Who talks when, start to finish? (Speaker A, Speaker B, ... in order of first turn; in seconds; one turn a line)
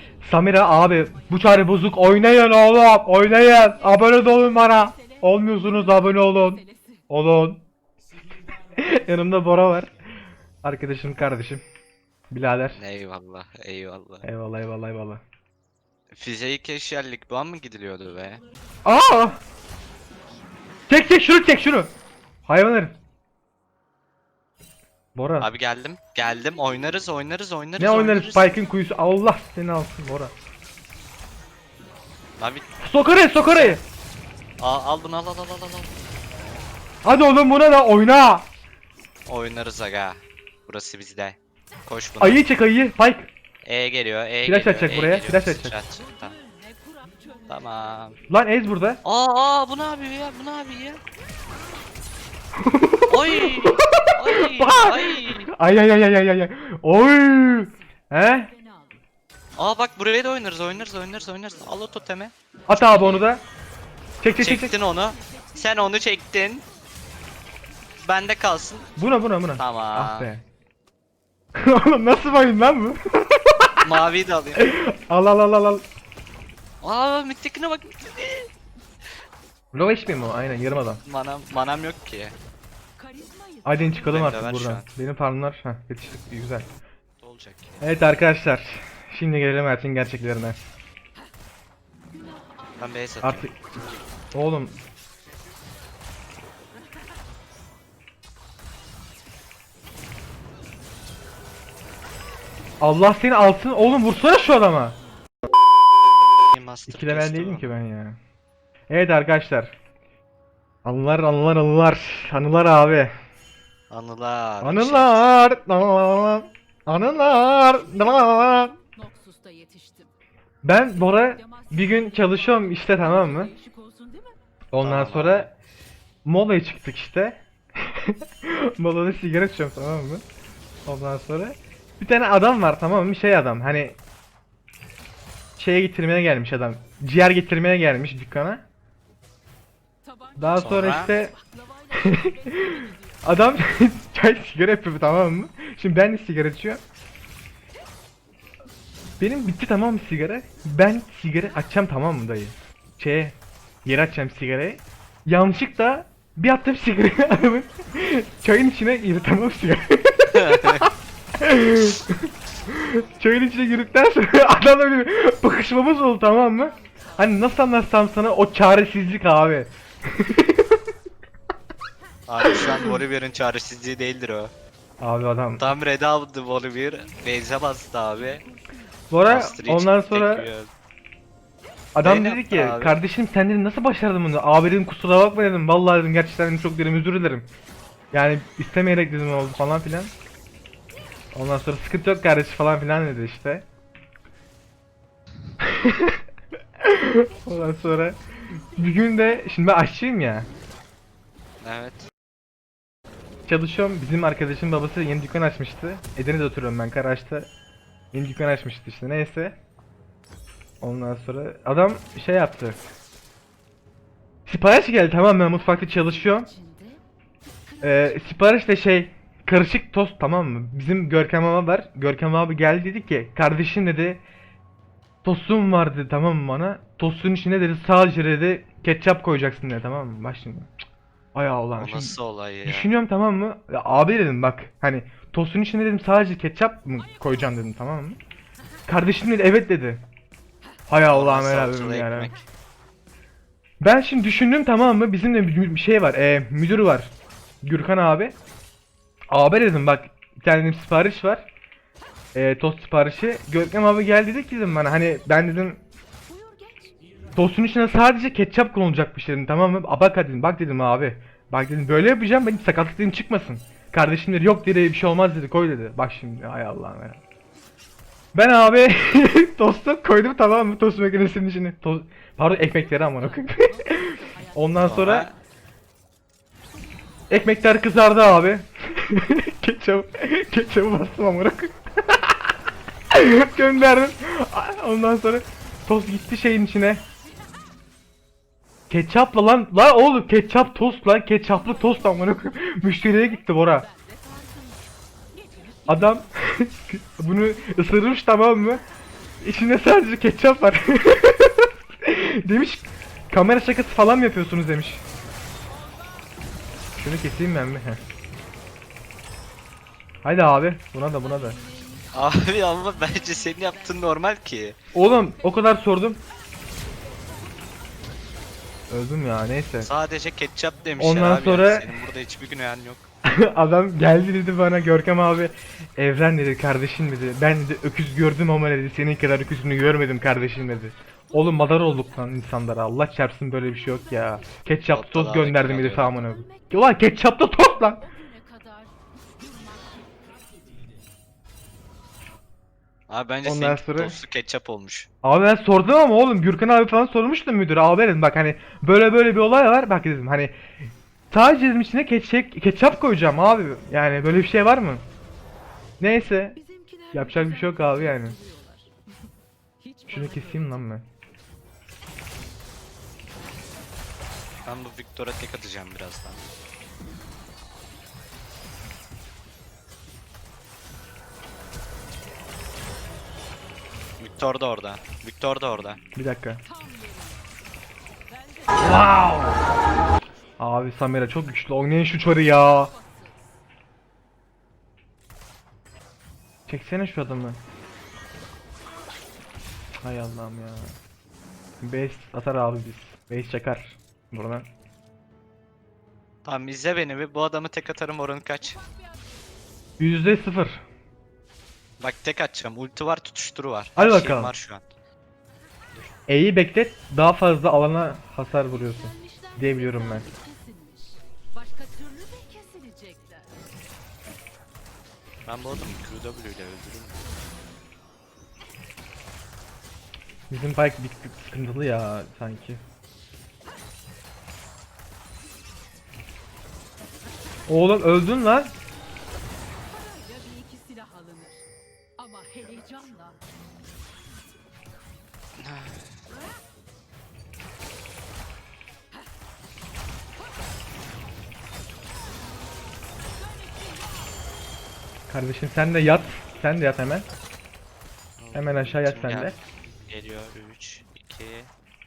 Speaker A: 0.2-7.6
Speaker B: 4.1-7.0
Speaker A: 8.8-9.9
Speaker A: 10.6-11.6
Speaker A: 12.3-12.8
Speaker C: 12.7-14.2
Speaker A: 14.2-15.2
Speaker C: 16.1-18.4
Speaker A: 18.8-19.4
Speaker A: 20.9-21.9
Speaker A: 22.5-23.0
Speaker A: 25.1-25.5
Speaker C: 25.4-28.6
Speaker A: 27.8-30.3
Speaker C: 32.4-32.7
Speaker A: 32.8-33.8
Speaker C: 33.4-33.8
Speaker C: 34.6-35.9
Speaker A: 37.0-38.5
Speaker C: 39.3-42.4
Speaker A: 42.2-43.3
Speaker C: 43.6-46.3
Speaker A: 44.4-45.8
Speaker B: 46.0-47.9
Speaker C: 47.5-48.2
Speaker A: 48.3-49.0
Speaker C: 49.0-51.0
Speaker A: 52.6-58.5
Speaker C: 53.1-55.5
Speaker B: 57.3-57.8
Speaker B: 58.4-59.0
Speaker C: 59.6-63.3
Speaker A: 62.7-63.4
Speaker A: 64.2-64.7
Speaker C: 64.4-66.7
Speaker B: 64.9-65.9
Speaker C: 68.0-68.9
Speaker A: 69.0-70.4
Speaker C: 69.5-70.3
Speaker A: 71.5-74.0
Speaker C: 73.8-74.7
Speaker A: 74.5-75.8
Speaker C: 76.8-78.5
Speaker A: 79.7-81.0
Speaker C: 80.2-82.3
Speaker B: 83.0-84.2
Speaker A: 83.6-86.7
Speaker C: 84.1-84.9
Speaker C: 87.2-87.8
Speaker A: 87.8-90.6
Speaker B: 92.1-93.0
Speaker C: 92.8-93.5
Speaker A: 93.2-93.5
Speaker A: 94.3-94.7
Speaker A: 102.8-105.0
Speaker C: 106.5-107.7
Speaker A: 106.9-108.2
Speaker A: 108.9-109.8
Speaker A: 110.8-113.1
Speaker C: 113.9-115.2
Speaker A: 114.6-118.8
Speaker B: 117.8-120.1
Speaker A: 120.6-123.5
Speaker B: 121.1-124.3
Speaker A: 124.7-125.5
Speaker C: 124.8-125.5
Speaker A: 126.2-130.2
Speaker A: 130.8-134.0
Speaker A: 135.6-138.7
Speaker B: 140.0-143.2
Speaker A: 140.4-141.3
Speaker C: 140.6-141.1
Speaker A: 142.0-146.8
Speaker A: 149.2-170.7
Speaker C: 160.3-160.8
Speaker B: 166.5-167.3
Speaker C: 172.3-174.5
Speaker A: 172.4-172.9
Speaker A: 175.0-175.7
Speaker C: 175.6-178.4
Speaker B: 178.2-179.6
Speaker A: 179.1-180.5
Speaker C: 179.2-180.7
Speaker A: 181.9-187.5
Speaker C: 182.0-183.0
Speaker A: 188.1-190.1
Speaker A: 191.3-193.7
Speaker A: 195.6-196.2
Speaker A: 196.8-200.5
Speaker B: 197.1-199.5
Speaker C: 201.6-202.1
Speaker A: 203.5-207.5
Speaker A: 208.1-209.6
Speaker A: 210.8-212.8
Speaker A: 214.4-216.5
Speaker B: 216.0-217.0
Speaker B: 217.7-218.3
Speaker A: 217.8-224.2
Speaker A: 225.2-230.7
Speaker A: 231.3-238.2
Speaker C: 231.8-232.9
Speaker A: 238.9-240.0
Speaker A: 240.9-242.3
Speaker C: 241.1-242.4
Speaker A: 243.8-248.3
Speaker A: 249.3-251.5
Speaker A: 252.3-255.8
Speaker B: 256.3-257.0
Speaker A: 257.4-267.2
Speaker A: 268.3-275.3
Speaker B: 272.8-275.3
Speaker C: 274.8-275.3
Speaker A: 277.3-282.5
Speaker A: 283.1-287.0
Speaker A: 288.9-293.9
Speaker B: 291.6-292.4
Speaker B: 293.1-296.3
Speaker A: 295.9-298.8
Speaker A: 299.4-305.0
Speaker A: 307.0-308.0
Speaker A: 310.2-311.6
Speaker B: 311.2-314.1
Speaker C: 312.1-314.8
Speaker A: 314.9-316.2
Speaker B: 317.1-317.7
Speaker A: 318.9-319.9
Speaker C: 319.8-323.1
Speaker A: 321.0-321.9
Speaker A: 323.2-338.0
Speaker B: 331.3-332.3
Speaker B: 333.6-334.8
Speaker C: 334.9-336.2
Speaker B: 336.1-337.0
Speaker B: 338.0-340.2
Speaker C: 343.1-345.1
Speaker A: 343.4-344.1
Speaker A: 345.2-350.6
Speaker A: 351.3-355.0
Speaker A: 356.0-356.6
Speaker B: 356.6-358.9
Speaker A: 357.1-358.4
Speaker B: 359.8-360.8
Speaker A: 360.1-361.1
Speaker C: 364.6-366.4
Speaker C: 374.2-376.0
Speaker A: 376.1-376.6
Speaker B: 376.6-377.4
Speaker B: 378.4-379.0
Speaker A: 378.8-379.6
Speaker A: 380.6-382.9
Speaker B: 382.6-383.5
Speaker A: 386.7-387.6
Speaker A: 390.0-391.0
Speaker A: 391.8-394.7
Speaker C: 396.4-398.8
Speaker A: 400.0-400.8
Speaker C: 402.0-404.9
Speaker A: 403.9-404.5
Speaker A: 406.3-410.2
Speaker B: 408.6-413.5
Speaker C: 415.4-417.2
Speaker A: 420.5-422.8
Speaker A: 427.7-428.7
Speaker B: 429.9-431.6
Speaker B: 432.2-433.4
Speaker C: 435.6-436.0
Speaker A: 445.3-447.3
Speaker C: 448.4-449.6
Speaker A: 448.5-449.6
Speaker C: 450.1-451.7